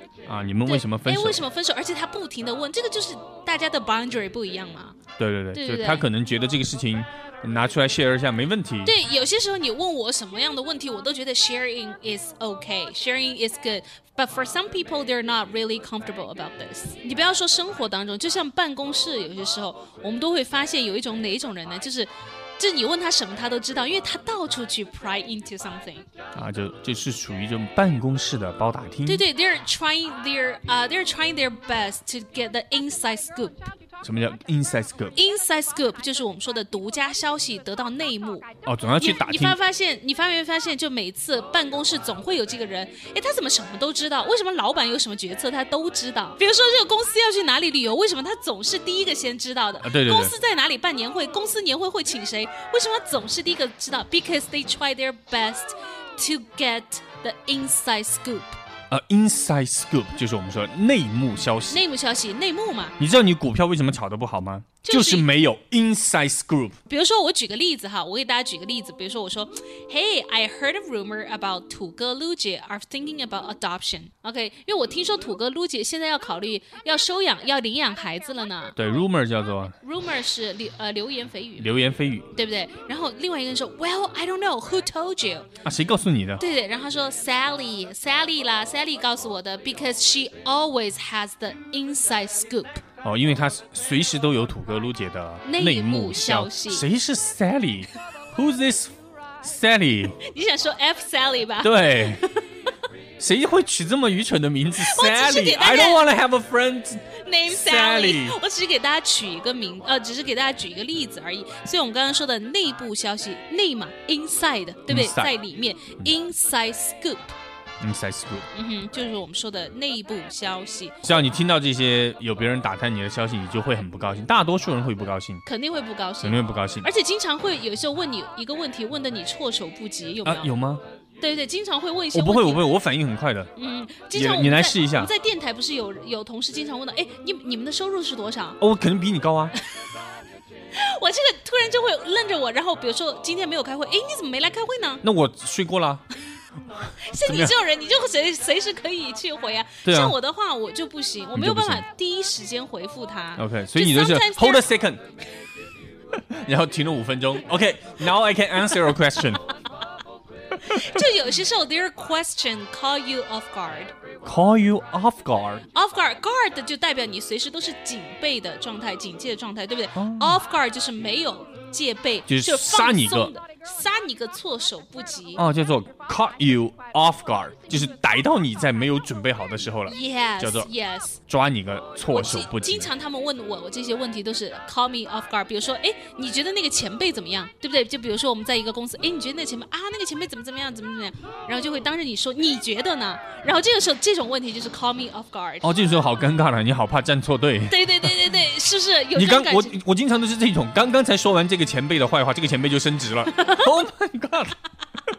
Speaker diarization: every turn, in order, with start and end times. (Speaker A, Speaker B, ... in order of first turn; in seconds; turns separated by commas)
Speaker A: 0.2-1.4, Speaker B: 0.7-5.0, Speaker A: 5.2-8.9, Speaker B: 5.5-6.0, Speaker B: 8.8-26.1, Speaker A: 26.3-29.2, Speaker B: 29.0-33.7, Speaker A: 34.0-35.1, Speaker B: 35.1-58.5, Speaker A: 38.6-39.6, Speaker A: 49.8-50.3, Speaker A: 58.9-61.8, Speaker B: 61.7-63.0, Speaker A: 63.0-66.8, Speaker B: 64.8-65.3, Speaker B: 66.9-78.8, Speaker A: 78.8-79.8, Speaker B: 79.8-81.8, Speaker A: 81.6-82.3, Speaker B: 82.3-85.5, Speaker A: 85.6-86.4, Speaker B: 86.4-92.8, Speaker A: 93.0-100.2, Speaker B: 95.4-96.8, Speaker B: 100.2-102.4, Speaker A: 101.6-102.2, Speaker A: 103.2-108.4, Speaker B: 104.8-106.1, Speaker B: 107.2-117.3, Speaker A: 114.9-115.3, Speaker A: 117.8-118.5, Speaker B: 118.5-121.0, Speaker A: 121.0-125.4, Speaker B: 125.5-130.5, Speaker A: 126.2-126.9, Speaker A: 130.2-130.8, Speaker B: 131.2-132.6, Speaker A: 132.1-133.5, Speaker B: 133.5-138.6, Speaker A: 134.1-135.1, Speaker A: 138.6-139.6, Speaker B: 140.7-145.0, Speaker A: 145.0-146.0, Speaker A: 146.7-147.6, Speaker B: 147.1-154.7, Speaker A: 149.8-150.2, Speaker A: 151.3-151.8, Speaker A: 153.4-155.0, Speaker A: 156.1-159.5, Speaker B: 160.6-163.9, Speaker A: 164.2-165.6, Speaker B: 165.7-175.4, Speaker A: 169.9-170.4, Speaker A: 172.3-173.3, Speaker A: 175.3-180.7, Speaker B: 179.8-181.2, Speaker A: 181.3-182.9, Speaker B: 182.1-195.7, Speaker A: 195.6-198.2, Speaker B: 197.7-199.8, Speaker A: 199.1-204.6, Speaker B: 203.3-203.7